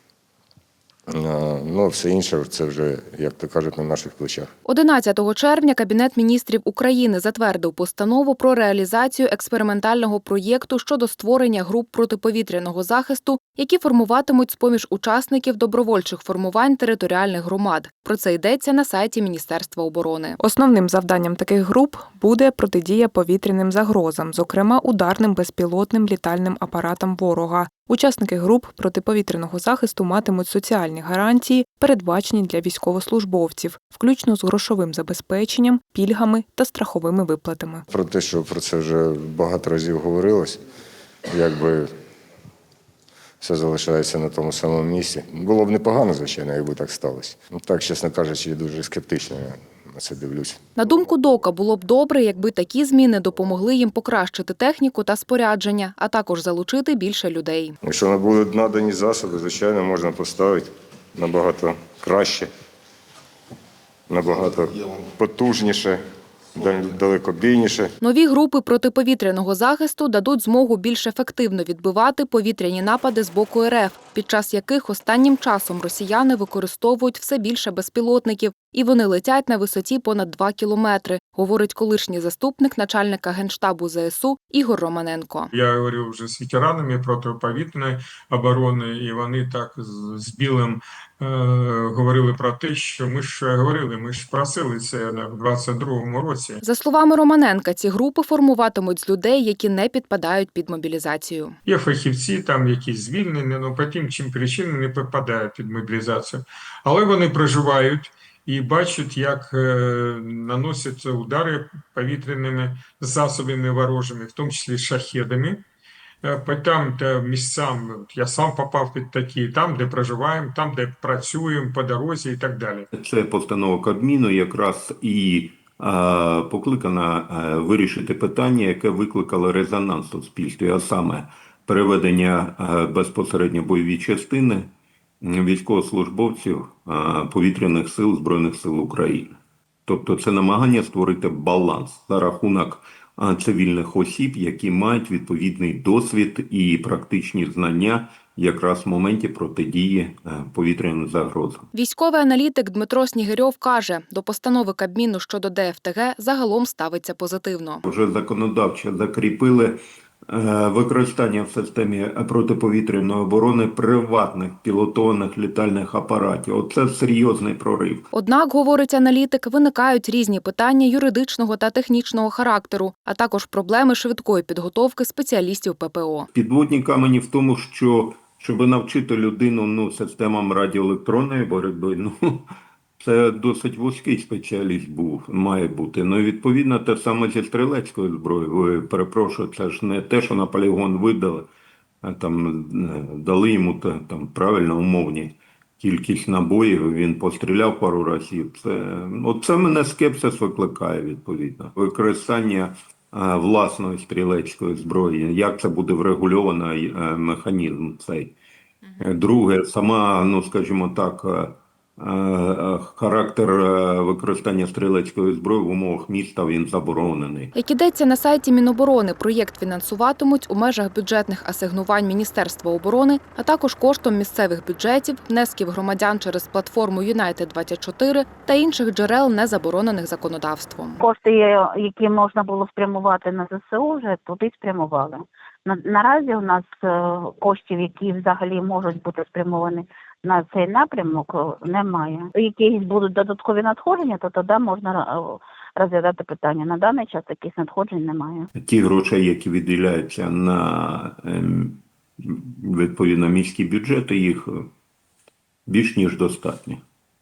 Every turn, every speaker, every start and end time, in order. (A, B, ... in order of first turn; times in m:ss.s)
0:01.1-0:04.5 A
0:04.6-0:20.4 B
0:20.4-0:37.8 C
0:37.9-0:40.6 A
0:41.3-0:41.9 A
0:43.4-0:50.6 A
0:50.8-0:57.8 B
0:57.8-1:02.5 A
1:04.1-1:06.0 A
1:06.5-1:07.9 A
1:08.0-1:25.5 B
1:25.5-1:36.6 D
1:36.6-1:41.6 B
1:41.6-1:55.6 D
1:56.2-2:02.9 D
2:02.9-2:14.7 E
2:15.2-2:31.7 E
2:31.7-2:37.8 B
2:37.8-2:39.8 E
2:40.3-2:48.1 E
2:48.1-2:56.3 B
2:56.3-3:11.5 E
3:12.0-3:28.3 E
3:29.0-3:37.5 E
3:37.5-3:51.0 B
3:51.0-4:08.5 F
4:08.6-4:14.7 E
4:15.7-4:16.8 E